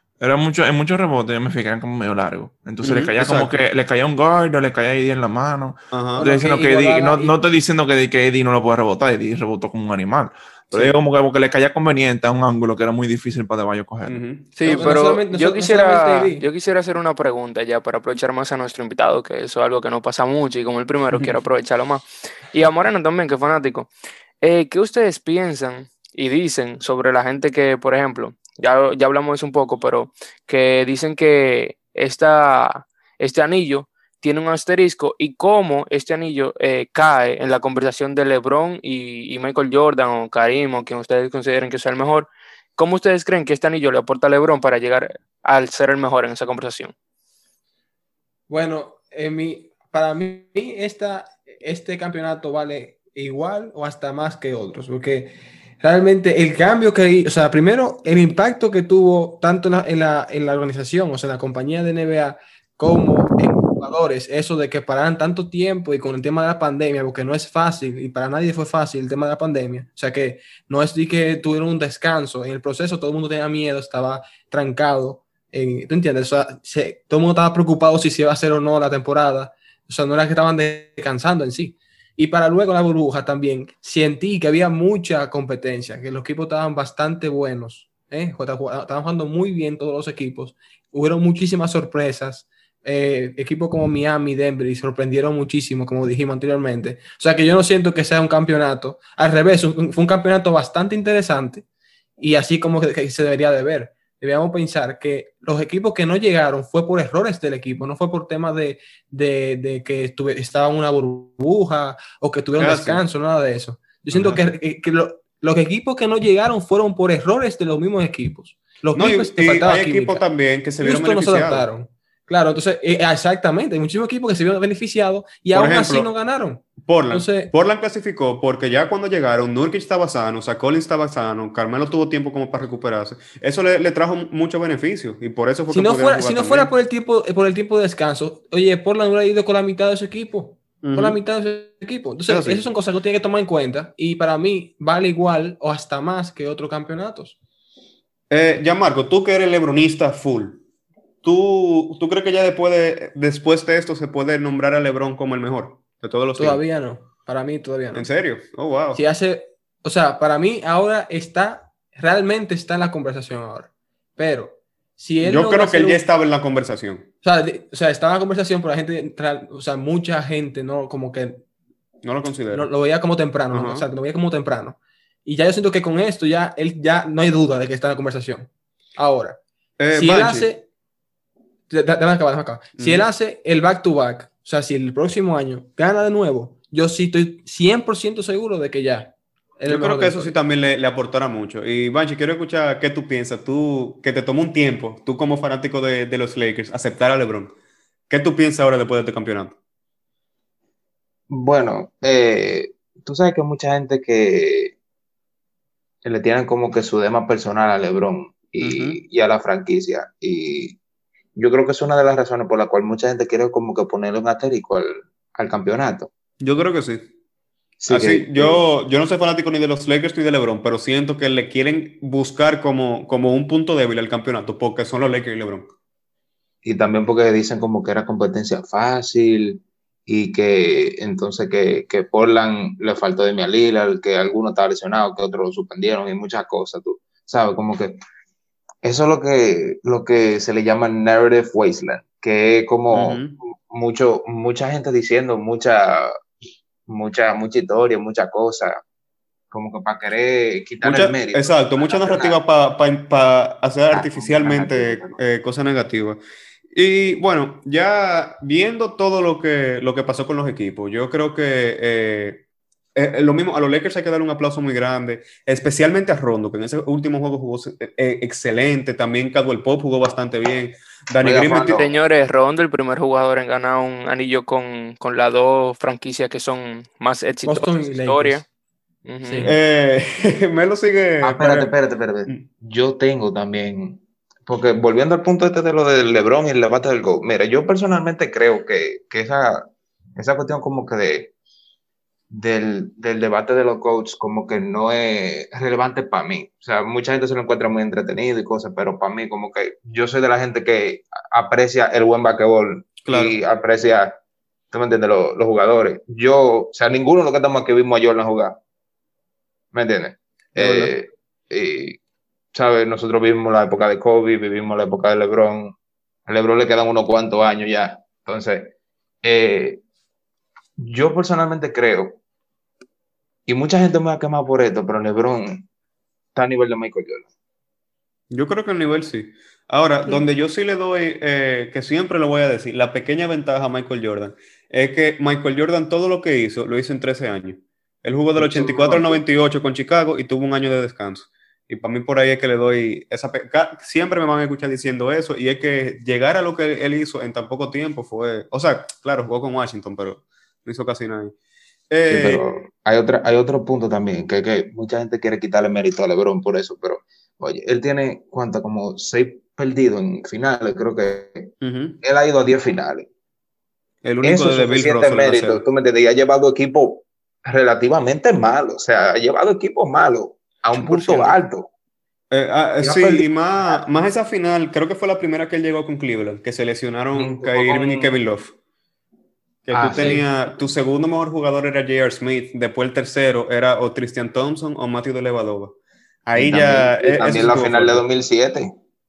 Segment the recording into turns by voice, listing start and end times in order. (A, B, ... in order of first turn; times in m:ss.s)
0:00.2-0:14.2 A
0:02.8-0:03.6 B
0:05.9-0:06.2 B
0:06.2-0:07.3 C
0:14.1-0:14.9 B
0:14.6-0:46.9 D
0:14.6-0:16.5 C
0:48.5-1:41.6 C
1:42.2-2:00.2 C
1:52.6-1:53.0 B
1:54.1-1:54.4 B
1:59.0-2:01.7 B
2:00.8-2:07.5 C
2:05.5-2:06.1 B
2:06.8-2:16.7 B
2:15.7-2:27.4 C
2:20.8-2:21.2 B
2:22.3-2:22.6 B
2:28.3-2:30.6 B
2:31.2-2:36.6 B
2:36.4-2:38.1 C
2:37.9-2:39.0 B
2:38.9-2:46.0 C
2:45.2-2:47.1 B
2:47.2-2:51.4 C
2:52.0-2:52.7 B
2:52.5-2:59.4 C
2:53.5-2:53.9 B
2:59.8-3:00.5 B
2:59.9-3:00.7 C
3:01.7-3:10.3 C
3:02.8-3:03.1 B
3:09.7-3:17.5 B
3:18.1-3:19.6 B
3:21.3-3:24.8 E
3:26.0-3:30.8 E
3:28.6-3:29.0 B
3:31.4-3:36.1 E
3:36.4-3:37.1 B
3:37.8-3:38.6 E
3:37.9-3:45.7 B
3:46.6-3:58.0 E
3:58.8-4:06.2 E
4:02.9-4:03.4 B
4:06.9-4:08.8 E
4:09.5-4:12.4 E
4:10.8-4:16.2 B
4:13.9-4:15.2 E
4:16.7-4:22.4 B
4:23.0-4:31.8 B
4:31.2-4:31.8 E
4:31.7-4:38.4 D
4:37.4-4:38.4 C
4:39.1-4:39.5 D
4:39.2-4:39.6 C
4:39.4-4:41.7 B
4:41.2-4:51.3 E
4:52.3-5:04.2 E
5:03.0-5:03.4 B
5:04.7-5:08.6 E
5:09.7-5:12.0 E
5:10.6-5:10.9 B
5:12.5-5:15.7 E
5:16.3-5:19.8 E
5:20.8-5:22.2 E
5:23.5-5:25.7 E
5:26.4-5:27.3 E
5:28.3-5:51.3 B
5:38.6-5:39.0 E
5:51.9-5:52.4 B
5:52.1-6:03.1 E
6:01.6-6:02.0 B
6:04.0-6:05.6 B
6:04.2-6:11.7 E
6:10.8-6:11.4 B
6:12.3-6:18.5 B
6:12.8-6:13.8 E
6:17.1-6:18.2 E
6:19.7-6:25.8 B
6:19.7-6:20.3 E
6:26.3-6:28.0 B
6:26.4-6:28.7 E